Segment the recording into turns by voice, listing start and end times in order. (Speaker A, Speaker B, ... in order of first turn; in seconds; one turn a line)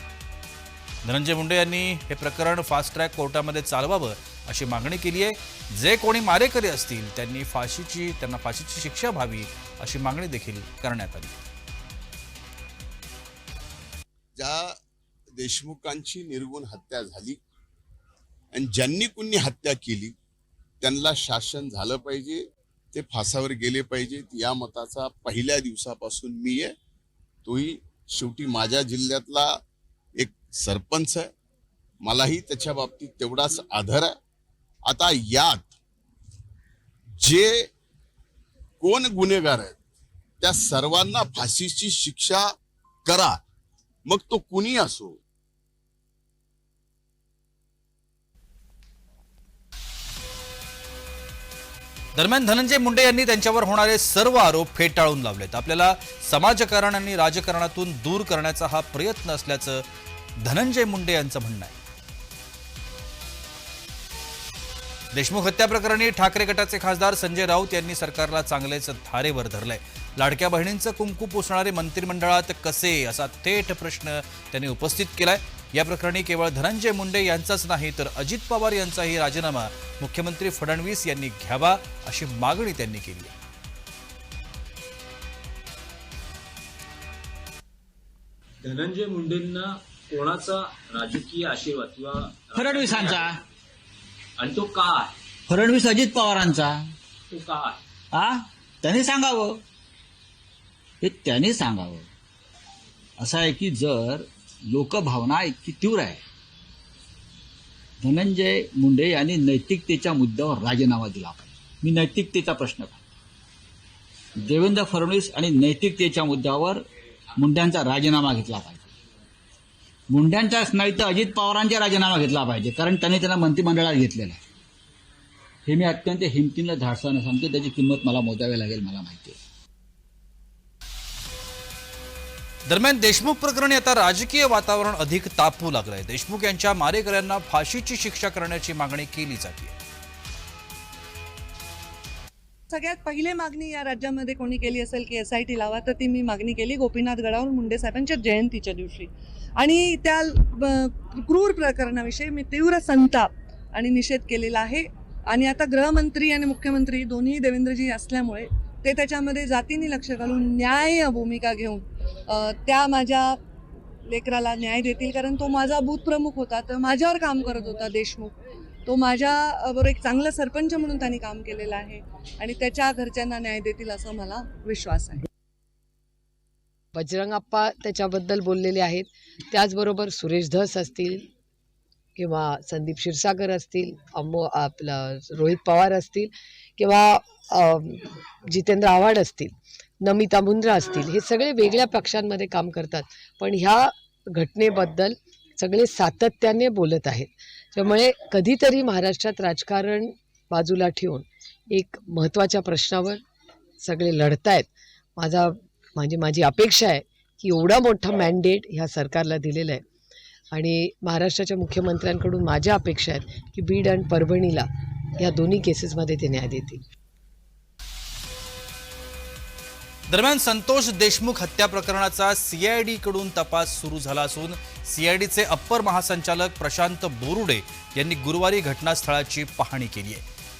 Speaker A: 1.0-11.4
Speaker B: 14.3-14.7
Speaker B: 15.4-17.4
Speaker B: 18.5-20.1
Speaker B: 20.8-22.4
Speaker B: 22.9-26.7
Speaker B: 27.4-29.5
Speaker B: 30.2-31.3
Speaker B: 32.0-34.1
Speaker B: 34.9-35.7
Speaker B: 37.2-37.5
Speaker B: 38.8-39.8
Speaker B: 40.4-42.4
Speaker B: 43.0-43.4
Speaker B: 44.1-45.2
Speaker A: 52.1-59.8
Speaker A: 60.4-61.7
Speaker A: 65.1-83.3
Speaker C: 88.6-93.3
Speaker D: 92.5-93.4
Speaker C: 94.4-95.1
Speaker D: 95.5-96.9
Speaker C: 97.3-97.8
Speaker D: 98.1-99.6
Speaker D: 101.0-102.1
Speaker D: 103.2-106.2
Speaker D: 108.0-113.0
Speaker D: 114.4-116.8
Speaker D: 117.4-118.9
Speaker D: 120.1-124.4
Speaker D: 125.7-129.4
Speaker A: 132.7-139.8
Speaker E: 142.7-163.4
Speaker E: 164.1-168.3
Speaker E: 168.8-175.2
Speaker F: 176.9-181.3
Speaker F: 182.2-203.2
Speaker F: 203.8-209.8
Speaker F: 210.5-216.8
Speaker A: 220.1-230.2